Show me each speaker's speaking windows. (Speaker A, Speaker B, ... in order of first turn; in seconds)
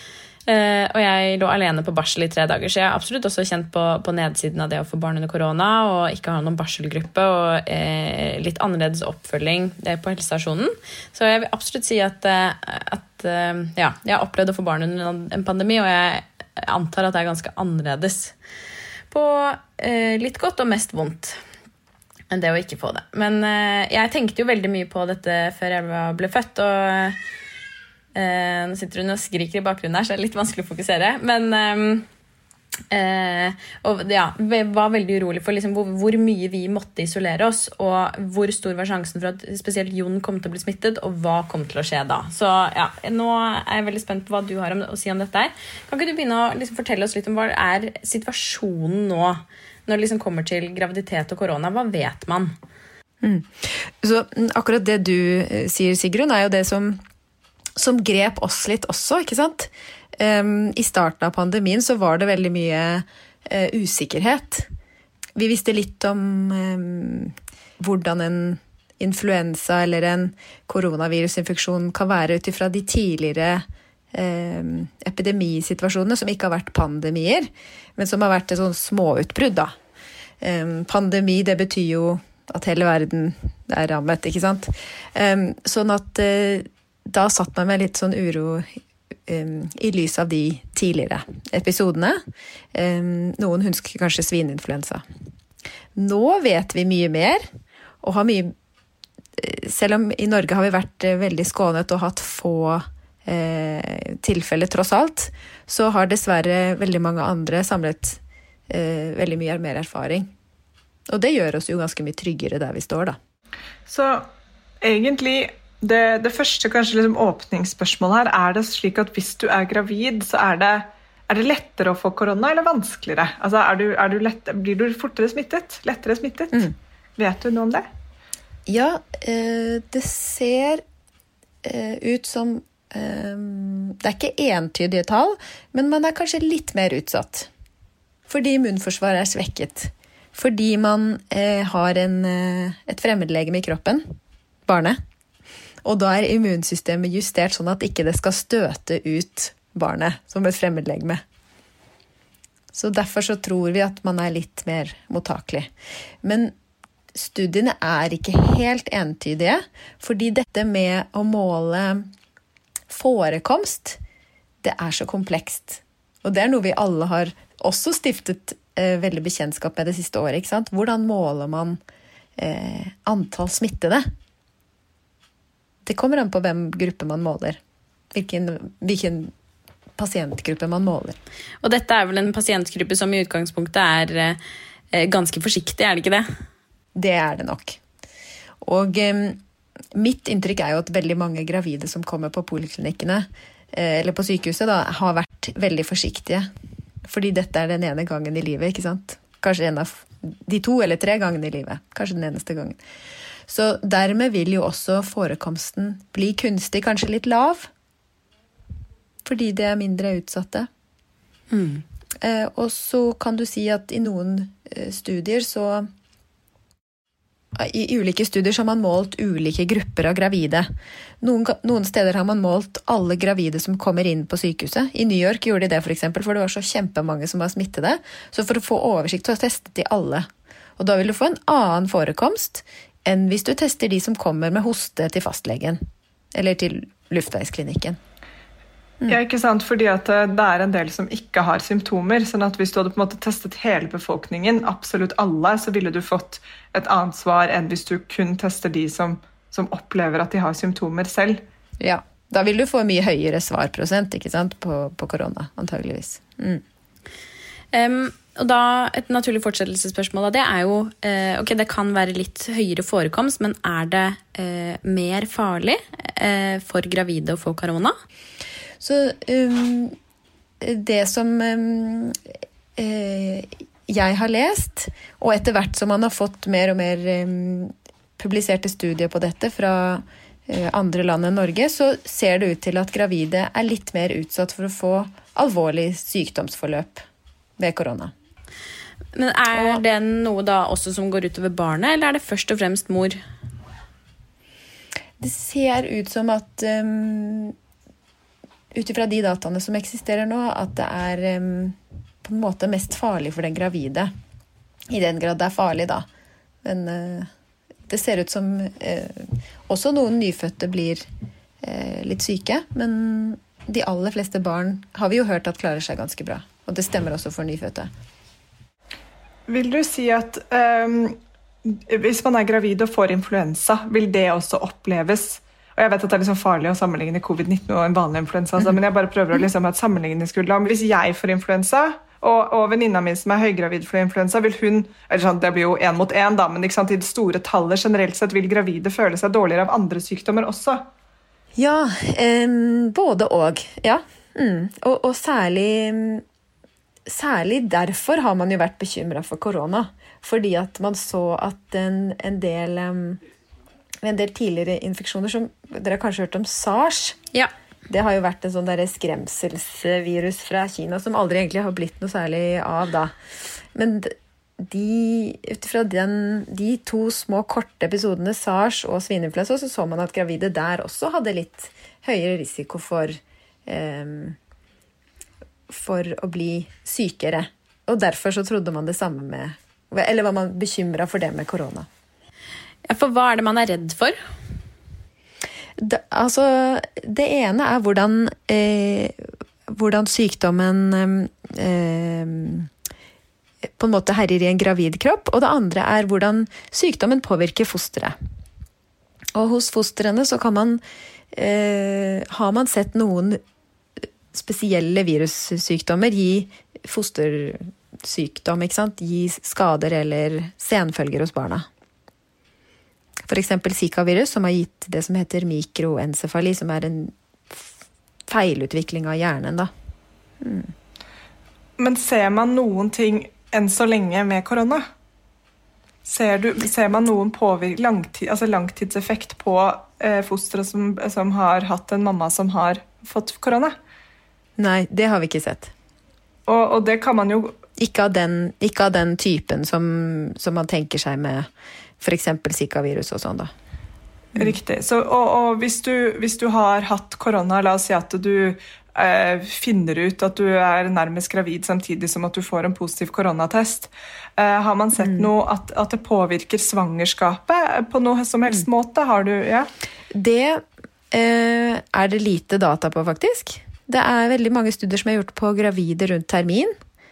Speaker A: 0.5-18.3, 19.1-21.3, 22.3-27.1, 28.1-32.0, 32.9-49.4, 49.9-52.5, 181.6-184.4, 184.9-186.2, 211.5-211.8, 257.7-267.9, 289.1-293.2, 382.9-384.1
Speaker B: 53.2-57.0, 57.8-64.7, 65.4-79.7, 80.4-92.2, 92.7-95.0, 95.9-97.5, 98.0-98.5, 99.4-110.3, 111.1-113.2, 128.7-130.8, 131.6-137.5, 138.3-144.1, 144.7-145.0, 145.8-151.2, 152.7-155.7, 156.2-156.5, 157.1-162.1, 162.9-164.0, 164.6-171.8, 172.4-174.1, 175.8-177.6, 178.1-179.3, 180.0-181.2, 186.9-187.8, 188.6-189.4, 189.9-196.5, 197.1-202.8, 203.5-207.7, 209.2-210.7, 212.2-215.9, 217.6-220.7, 221.2-235.8, 236.3-238.0, 251.8-256.6, 268.8-270.0, 270.6-272.2, 272.8-287.1, 287.6-288.1, 289.5-289.8, 295.2-297.6, 298.7-304.1, 304.9-306.1, 306.6-307.3, 307.9-311.0, 311.6-317.9, 341.6-346.2, 347.1-353.2, 354.0-357.2, 357.9-363.1, 363.7-374.4, 375.7-381.9, 385.8-392.7, 393.8-398.1, 399.4-400.8, 401.3-403.4, 404.3-411.6, 413.3-417.7, 418.3-419.7, 420.4-420.7, 434.6-435.7, 437.8-441.5, 442.0-443.5, 455.0-455.3, 460.1-466.7
Speaker C: 113.9-114.3, 114.8-127.9, 239.1-251.4, 319.5-340.9, 421.8-424.9, 426.0-433.8, 436.5-437.6, 444.4-459.7